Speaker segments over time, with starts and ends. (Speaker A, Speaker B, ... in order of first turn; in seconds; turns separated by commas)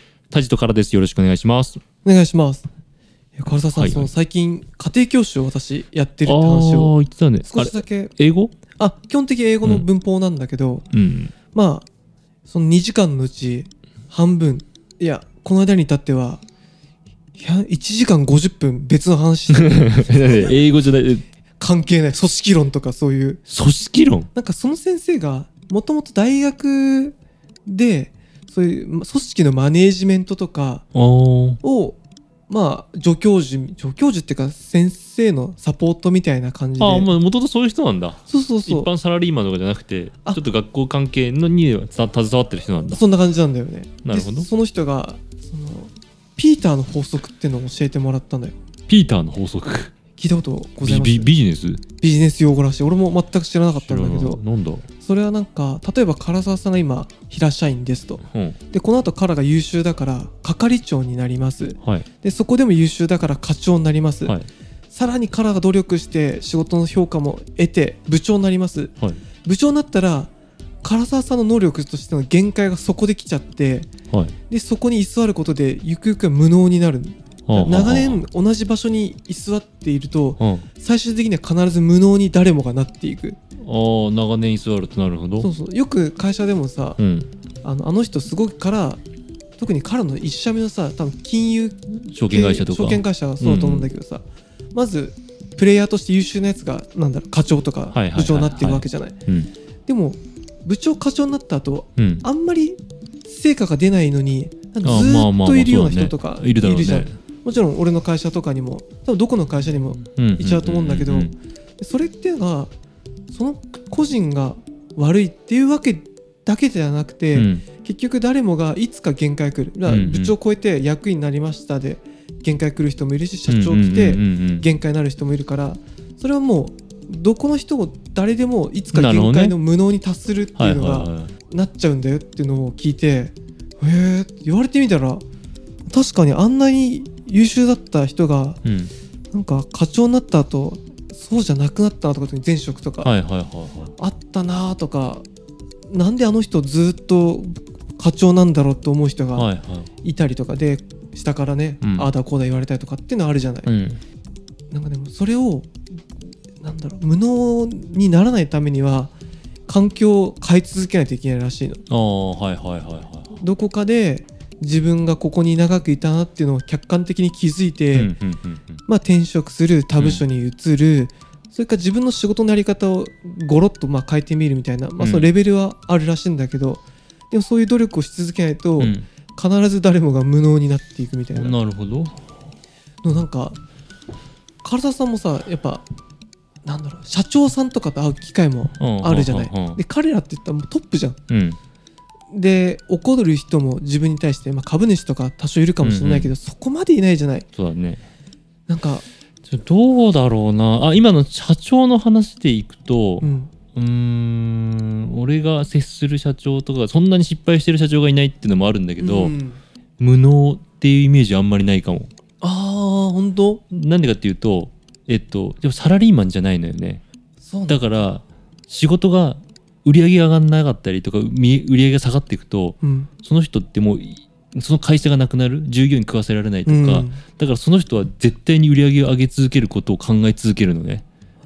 Speaker A: 0.3-1.8, Speaker B: 2.0-2.7, Speaker B: 3.4-6.9, Speaker A: 3.5-4.1, Speaker A: 6.2-8.5, Speaker B: 7.4-8.1, Speaker B: 8.8-10.8, Speaker A: 10.9-11.3, Speaker B: 11.5-11.9, Speaker B: 12.5-16.4, Speaker B: 17.4-20.6, Speaker A: 19.5-21.2, Speaker B: 21.6-23.4, Speaker A: 23.5-24.3, Speaker B: 24.4-30.9, Speaker A: 30.9-31.6, Speaker B: 31.6-32.0, Speaker B: 32.5-37.1, Speaker A: 36.8-43.0, Speaker B: 38.3-38.9, Speaker B: 42.9-48.6, Speaker A: 44.0-44.5, Speaker A: 48.9-49.9, Speaker B: 50.2-51.3, Speaker A: 50.8-51.8, Speaker B: 52.0-54.4, Speaker A: 53.8-54.9, Speaker B: 55.0-64.4, Speaker A: 58.3-58.6, Speaker B: 64.9-68.9, Speaker B: 69.5-70.3, Speaker B: 70.8-73.9, Speaker B: 74.5-83.4, Speaker A: 77.5-78.2, Speaker A: 80.4-80.7, Speaker A: 83.6-85.5, Speaker B: 85.4-87.0, Speaker A: 87.0-87.3, Speaker B: 87.6-89.0, Speaker B: 89.6-99.2, Speaker A: 92.1-93.9, Speaker A: 97.9-99.5, Speaker B: 99.9-112.7, Speaker A: 102.0-102.2, Speaker A: 104.8-107.2, Speaker A: 110.2-111.3, Speaker B: 113.3-135.2, Speaker A: 117.3-117.6, Speaker A: 119.9-120.3, Speaker A: 123.5-124.7, Speaker A: 128.9-129.6, Speaker A: 130.6-131.3, Speaker B: 135.9-138.6, Speaker A: 138.7-138.9, Speaker B: 139.3-143.1, Speaker A: 143.0-143.9, Speaker B: 144.0-145.3, Speaker B: 145.9-149.5, Speaker A: 149.4-149.9, Speaker B: 150.0-153.7, Speaker A: 151.8-152.1, Speaker A: 153.7-154.0, Speaker B: 154.7-155.8, Speaker B: 156.6-159.1, Speaker B: 159.7-161.8, Speaker A: 161.9-163.4, Speaker B: 163.3-168.1, Speaker A: 167.9-168.8, Speaker B: 168.9-181.6, Speaker A: 170.0-170.2, Speaker A: 175.0-175.3, Speaker A: 178.8-179.1, Speaker A: 181.3-182.2, Speaker B: 183.0-183.6, Speaker B: 184.6-185.8, Speaker B: 186.7-191.2, Speaker A: 188.8-189.8, Speaker A: 191.3-191.6, Speaker B: 192.3-197.4, Speaker A: 195.8-196.3, Speaker A: 197.6-198.0, Speaker B: 198.7-199.1, Speaker A: 199.4-209.3, Speaker B: 203.2-203.5, Speaker B: 209.0-209.6, Speaker A: 210.0-212.1, Speaker B: 212.4-213.6, Speaker A: 213.7-217.0, Speaker B: 217.4-217.9, Speaker A: 217.7-231.1, Speaker B: 222.8-223.1, Speaker B: 226.7-227.2